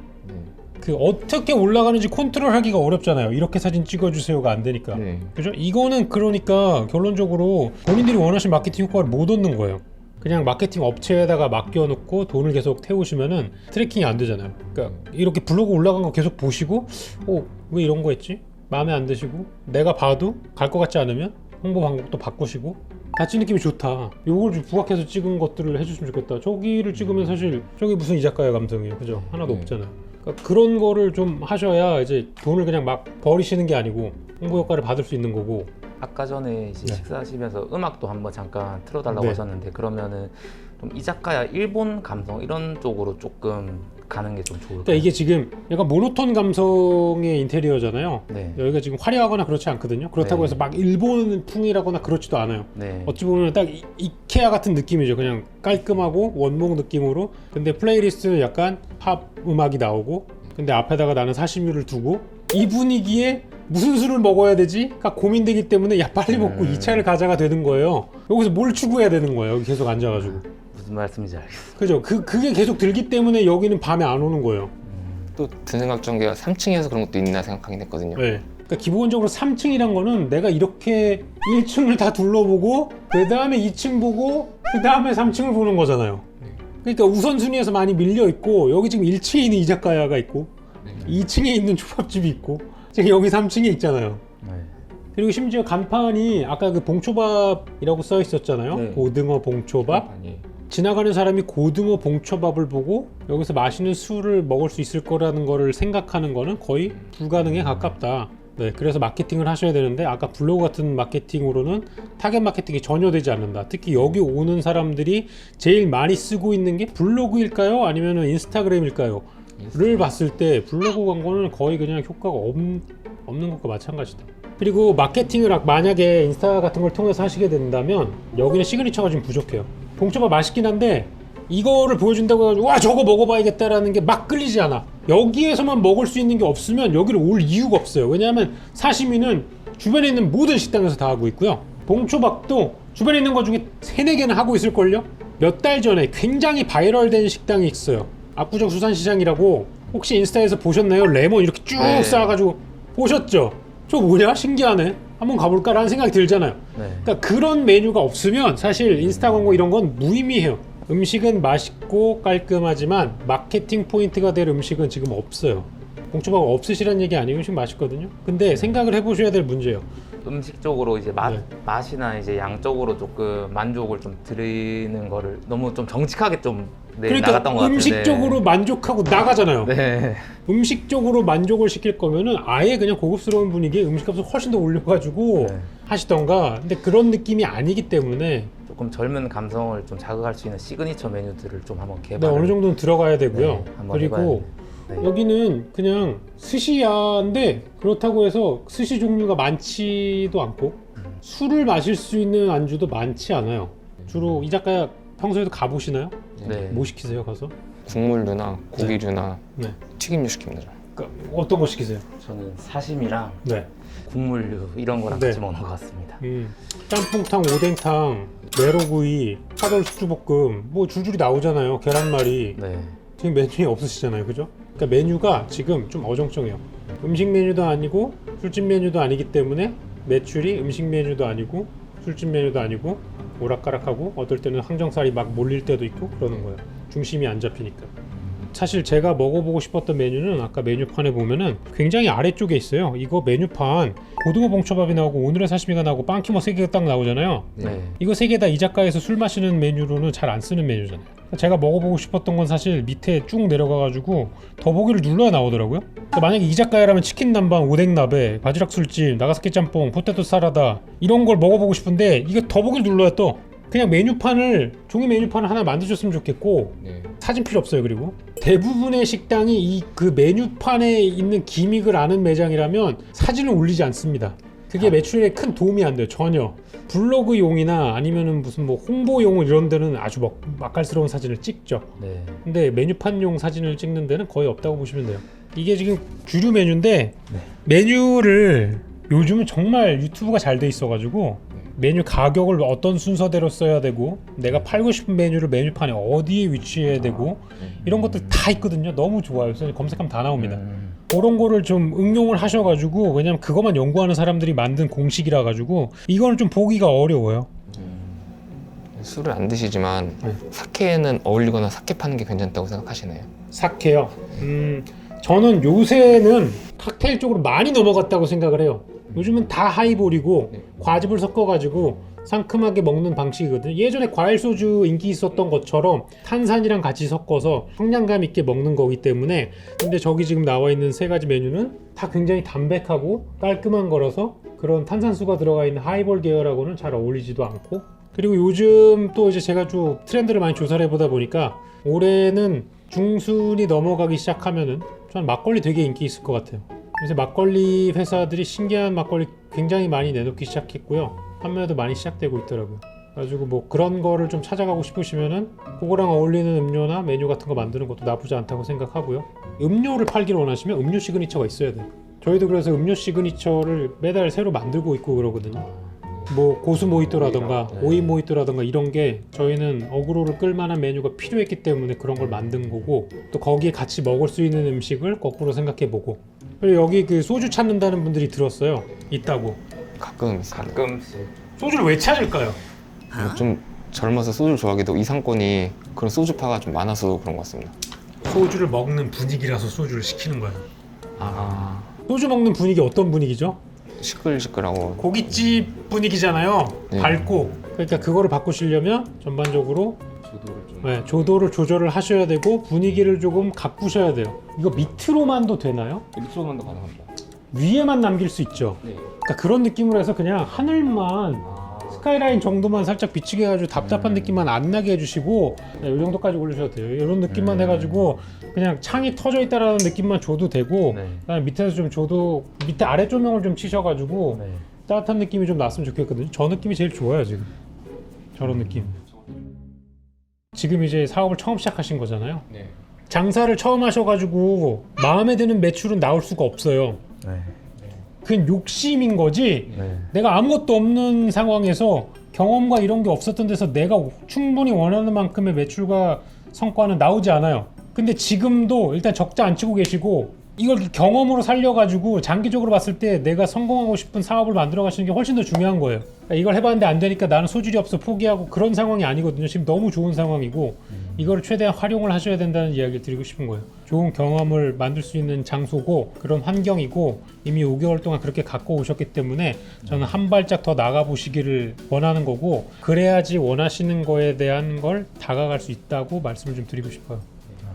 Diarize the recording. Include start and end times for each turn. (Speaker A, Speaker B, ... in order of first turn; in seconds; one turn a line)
Speaker A: 0.2-0.5
Speaker B: 0.8-35.7
Speaker A: 4.9-5.3
Speaker A: 29.4-29.8
Speaker C: 36.0-45.1
Speaker B: 39.1-39.4
Speaker B: 44.8-70.4
Speaker C: 48.3-48.6
Speaker C: 50.2-50.6
Speaker C: 52.8-53.2
Speaker C: 66.3-67.1
Speaker C: 70.5-71.8
Speaker B: 71.8-74.7
Speaker C: 74.8-75.3
Speaker A: 75.4-78.2
Speaker B: 78.2-86.2
Speaker B: 86.8-90.5
Speaker A: 90.8-91.1
Speaker B: 91.0-94.2
Speaker C: 94.4-94.7
Speaker B: 95.1-100.1
Speaker C: 98.7-99.1
Speaker A: 99.8-100.5
Speaker B: 100.7-169.8
Speaker A: 119.6-119.9
Speaker C: 151.8-152.4
Speaker C: 156.8-157.1
Speaker C: 159.0-159.6
Speaker C: 170.2-178.4
Speaker B: 177.1-179.7
Speaker C: 179.6-180.4
Speaker B: 180.5-188.5
Speaker C: 185.4-185.7
Speaker C: 188.7-192.6
Speaker B: 192.2-194.5
Speaker C: 193.3-195.1
Speaker B: 195.0-207.5
Speaker C: 206.4-206.9
Speaker A: 207.8-210.8
Speaker B: 210.9-212.0
Speaker C: 212.2-213.5
Speaker C: 214.0-216.2
Speaker B: 215.1-222.6
Speaker C: 222.6-223.0
Speaker B: 223.2-237.9
Speaker B: 238.5-281.9
Speaker C: 247.6-248.0
Speaker A: 266.8-267.1
Speaker C: 282.0-282.4
Speaker B: 282.4-307.5
Speaker C: 300.4-301.0
Speaker A: 308.9-313.3
Speaker B: 313.5-365.7
Speaker B: 366.3-379.6
Speaker C: 367.8-368.1
Speaker A: 380.0-380.9
Speaker C: 380.5-381.3
Speaker B: 381.6-382.6
Speaker A: 383.1-387.7
Speaker B: 388.2-390.6
Speaker A: 391.2-391.9
Speaker B: 392.1-393.6
Speaker A: 394.0-395.0
Speaker B: 395.0-400.0
Speaker A: 396.9-397.3
Speaker A: 400.2-401.4
Speaker B: 400.8-406.1
Speaker A: 406.1-407.1
Speaker B: 407.5-427.5
Speaker A: 411.4-412.0
Speaker C: 413.8-414.4
Speaker C: 417.3-418.1
Speaker C: 420.9-421.2
Speaker C: 424.3-424.6
Speaker B: 428.4-428.9
Speaker C: 428.4-428.7
Speaker B: 430.5-432.5
Speaker B: 433.1-437.0
Speaker C: 437.2-437.6
Speaker B: 438.2-477.2
Speaker C: 439.7-440.1
Speaker C: 460.9-461.3
Speaker C: 469.8-470.1